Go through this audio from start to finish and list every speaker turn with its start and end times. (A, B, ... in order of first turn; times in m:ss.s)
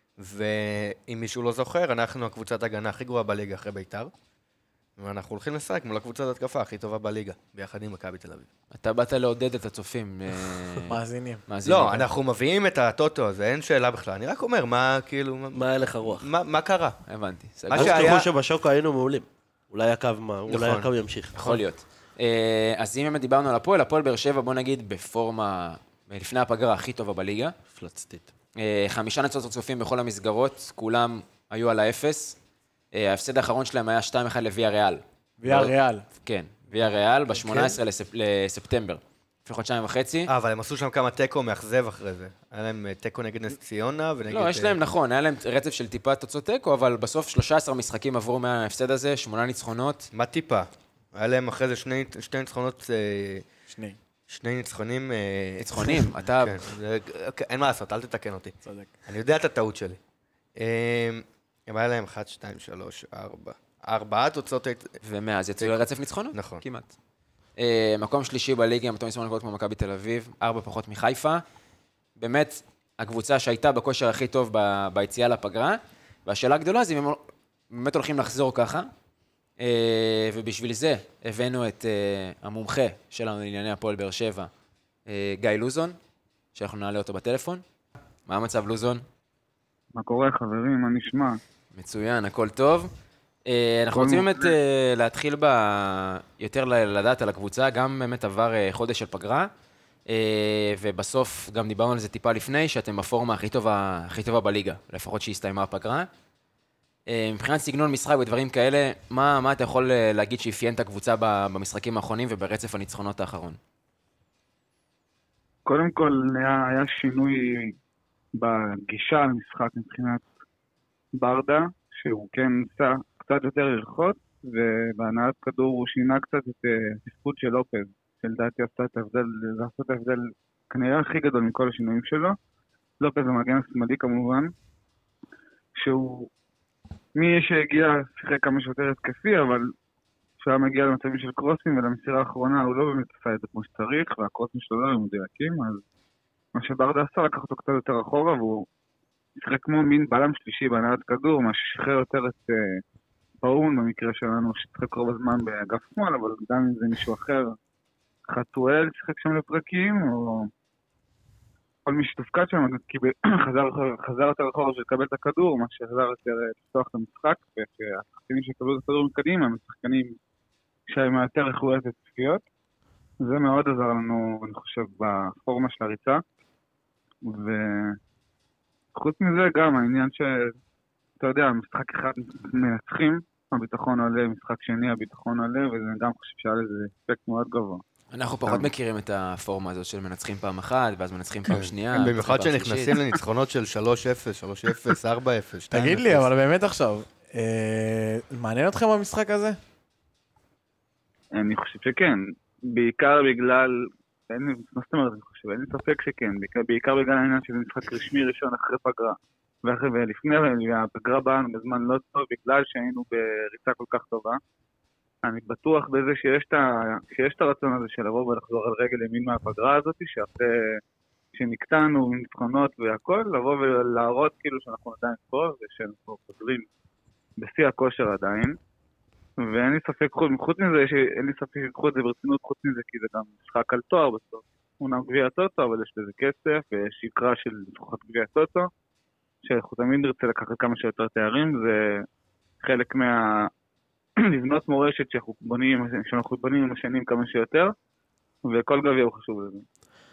0:00.2-0:04.1 A
0:05.0-0:08.5 A
0:08.7-0:12.1 B
0:10.9-0:11.4 C
0:11.6-0:17.0 A
0:15.5-0:16.3 D
0:17.1-0:18.1 B
0:17.7-0:18.3 A
0:17.7-0:21.6 D
0:20.5-0:20.9 A
0:21.3-0:27.5 B
0:27.7-0:28.3 D
0:28.6-0:32.4 B
0:32.9-0:40.3 B
0:35.4-0:36.0 C
0:37.5-0:37.8 A
0:40.3-0:44.8 A
0:44.3-0:50.1 B
0:50.1-0:53.4 A
0:53.7-0:54.0 C
0:54.3-0:58.6 A
0:55.6-0:56.6 B
0:58.6-0:58.9 C
0:59.1-1:00.0 A
1:00.6-1:05.0 A
1:05.0-1:06.9 B
1:05.6-1:06.6 A
1:07.6-1:11.4 B
1:12.2-1:18.9 B
1:19.6-1:24.5 B
1:25.1-1:26.0 B
1:26.5-1:27.6 B
1:28.3-1:29.0 B
1:29.9-1:31.4 E
1:31.7-1:32.9 B
1:33.4-1:39.5 B
1:33.9-1:34.5 E
1:40.1-1:46.1 B
1:47.1-1:53.6 B
1:55.6-1:57.7 E
1:58.3-2:00.2 E
2:01.1-2:12.4 E
2:13.0-2:14.5 E
2:15.8-2:16.3 E
2:17.1-2:19.7 E
2:20.4-2:25.8 E
2:26.5-2:28.6 E
2:29.4-2:32.8 E
2:33.4-2:37.6 E
2:38.3-2:40.5 E
2:41.8-2:50.1 E
2:50.9-2:52.4 E
2:53.2-2:56.2 E
2:57.2-2:58.0 E
2:58.9-3:00.5 E
3:01.2-3:07.8 E
3:08.1-3:13.0 B
3:11.5-3:16.3 A
3:15.7-3:19.6 C
3:21.3-3:34.4 E
3:35.2-3:40.8 E
3:41.3-3:46.6 E
3:47.4-3:48.6 E
3:49.4-3:58.7 E
3:59.4-4:02.0 E
4:02.6-4:03.5 E
4:04.2-4:07.7 E
4:08.4-4:09.6 E